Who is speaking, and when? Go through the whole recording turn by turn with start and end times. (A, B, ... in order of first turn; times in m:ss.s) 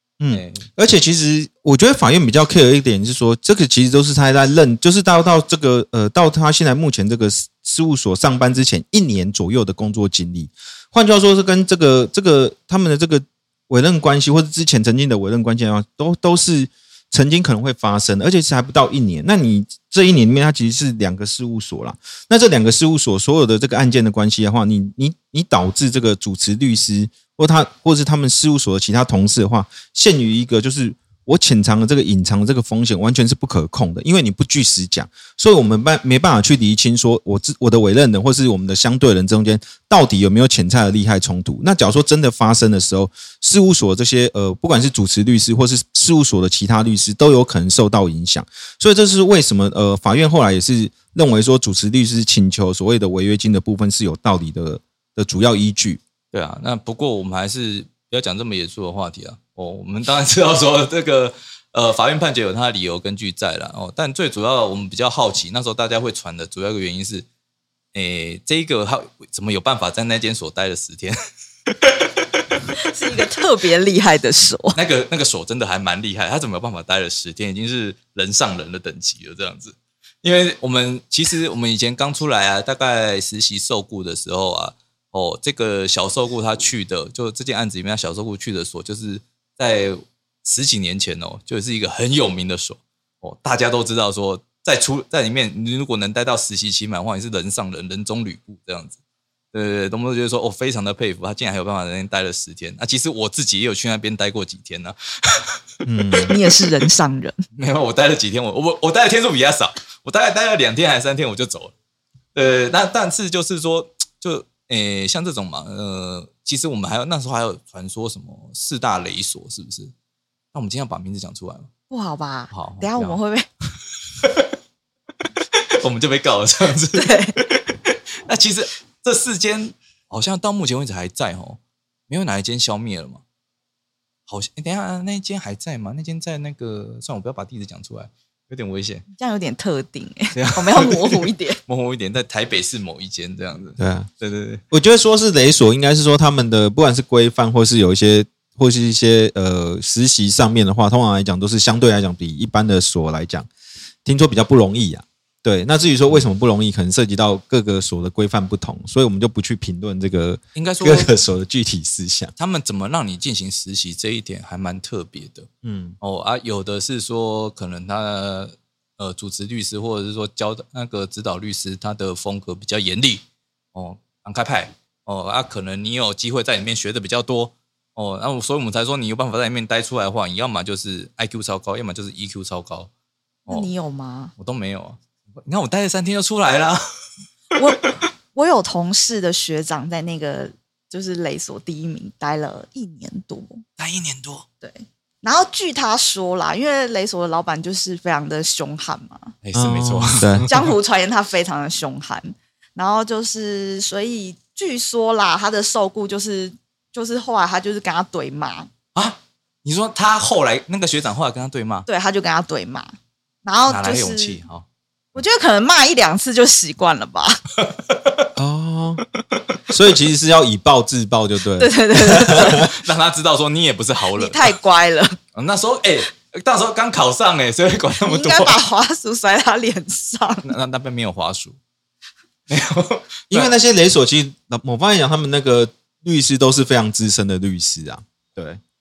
0:00.2-0:56.0 A
0:00.3-0:00.7 B
0:56.3-1:07.3 B
1:07.9-1:12.6 B
1:12.8-1:14.8 C
1:14.7-1:39.0 B
1:39.5-1:45.6 B
1:45.9-1:46.4 A
1:46.3-1:47.4 C
1:47.6-1:51.7 B
1:52.4-1:59.9 B
2:00.5-2:01.7 B
2:01.9-2:03.5 C
2:02.5-2:03.2 B
2:04.2-2:04.5 B
2:05.5-2:13.2 B
2:07.0-2:07.4 C
2:14.3-2:19.1 B
2:19.2-2:21.6 C
2:20.4-2:24.6 B
2:23.8-2:24.1 A
2:24.7-2:33.5 A
2:34.0-2:42.3 A
2:40.6-2:41.1 B
2:42.4-2:45.5 B
2:45.6-2:46.0 A
2:46.0-3:02.9 B
3:03.5-3:04.3 C
3:04.4-3:06.8 B
3:07.5-3:07.8 C
3:07.6-3:07.9 B
3:08.4-3:13.6 C
3:13.8-3:14.5 B
3:14.6-3:19.3 C
3:19.4-3:20.7 B
3:19.6-3:20.5 A
3:20.5-3:28.7 C
3:29.0-3:31.9 B
3:31.9-3:32.9 C
3:33.4-3:34.4 C
3:33.7-3:34.7 B
3:35.2-3:37.4 C
3:37.6-3:38.2 B
3:38.4-3:39.0 A
3:39.7-3:42.7 A
3:41.6-3:42.7 C
3:42.6-3:44.6 B
3:44.2-3:45.2 C
3:45.4-3:48.6 B
3:48.0-3:50.5 C
3:50.4-3:51.6 B
3:52.5-3:53.5 B
3:53.3-3:58.6 A